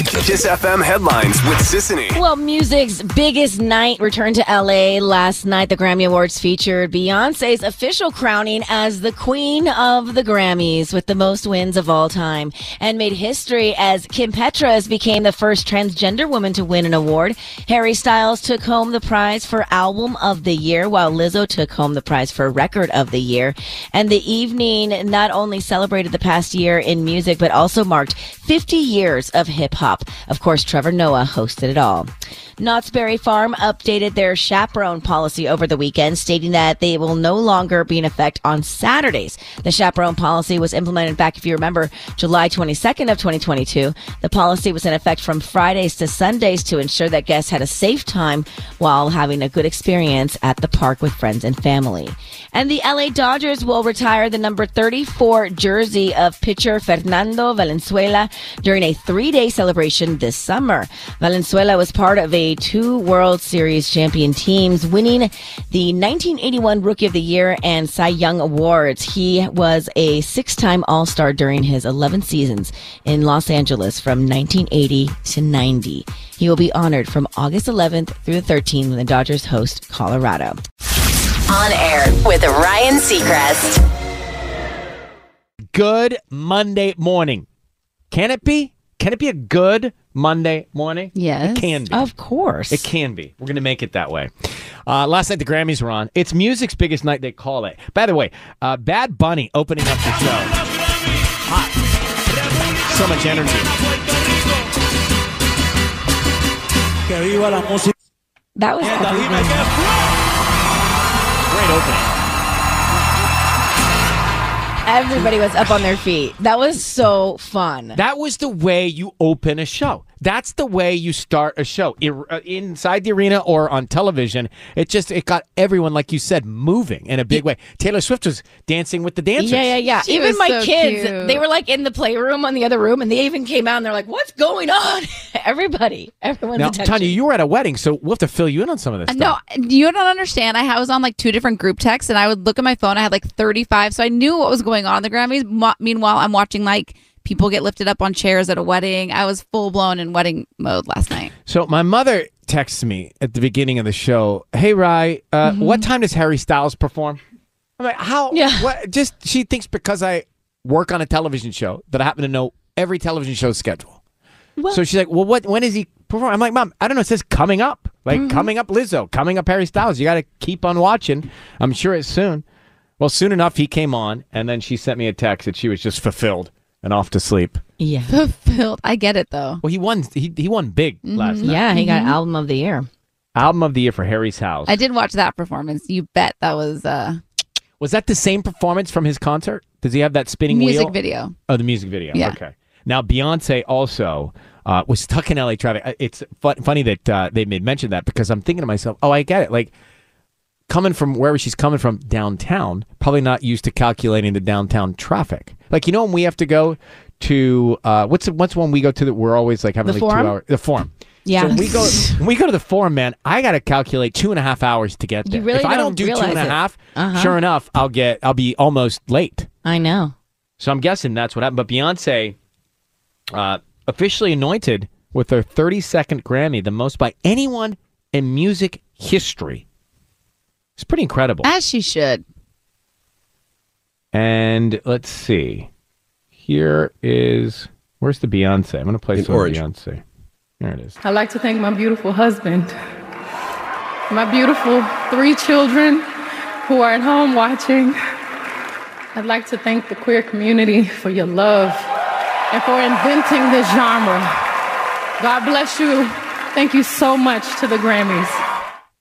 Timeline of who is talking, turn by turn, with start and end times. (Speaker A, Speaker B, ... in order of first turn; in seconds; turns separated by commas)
Speaker A: 0.1-2.2, Speaker B: 2.1-80.6, Speaker C: 81.5-83.8, Speaker D: 85.7-87.5, Speaker D: 88.1-92.0, Speaker E: 91.2-91.7, Speaker B: 91.9-92.9, Speaker D: 92.7-94.3, Speaker D: 94.9-100.6, Speaker D: 101.2-101.8, Speaker D: 102.6-103.8, Speaker D: 107.2-107.8, Speaker B: 108.6-109.7, Speaker D: 111.5-112.1, Speaker B: 114.8-118.0, Speaker D: 118.0-129.8, Speaker B: 129.4-137.2, Speaker E: 129.9-131.4, Speaker D: 136.6-139.4, Speaker E: 139.1-151.3, Speaker D: 151.5-157.2, Speaker B: 155.4-155.9, Speaker D: 157.8-164.0, Speaker B: 158.3-158.7, Speaker D: 164.7-172.4, Speaker B: 168.1-168.5, Speaker D: 173.0-177.6, Speaker B: 177.8-178.2, Speaker E: 178.1-179.6, Speaker D: 179.6-181.6, Speaker E: 181.1-182.2, Speaker B: 181.4-182.9, Speaker D: 183.3-184.8, Speaker E: 184.7-187.2, Speaker D: 187.8-190.9, Speaker E: 190.5-191.3, Speaker D: 191.5-199.7, Speaker D: 200.7-219.5, Speaker B: 209.8-210.3, Speaker B: 211.3-212.2, Speaker B: 215.3-217.4, Speaker B: 219.7-220.1, Speaker D: 220.6-222.4, Speaker D: 223.3-229.6, Speaker D: 230.8-231.5, Speaker E: 231.4-232.2, Speaker D: 234.1-235.7, Speaker D: 236.4-240.0, Speaker A: 239.2-239.6, Speaker D: 240.6-240.9, Speaker F: 241.0-242.7, Speaker F: 244.1-246.1, Speaker F: 246.7-248.0, Speaker F: 249.1-251.9, Speaker F: 252.5-254.3, Speaker F: 255.2-258.4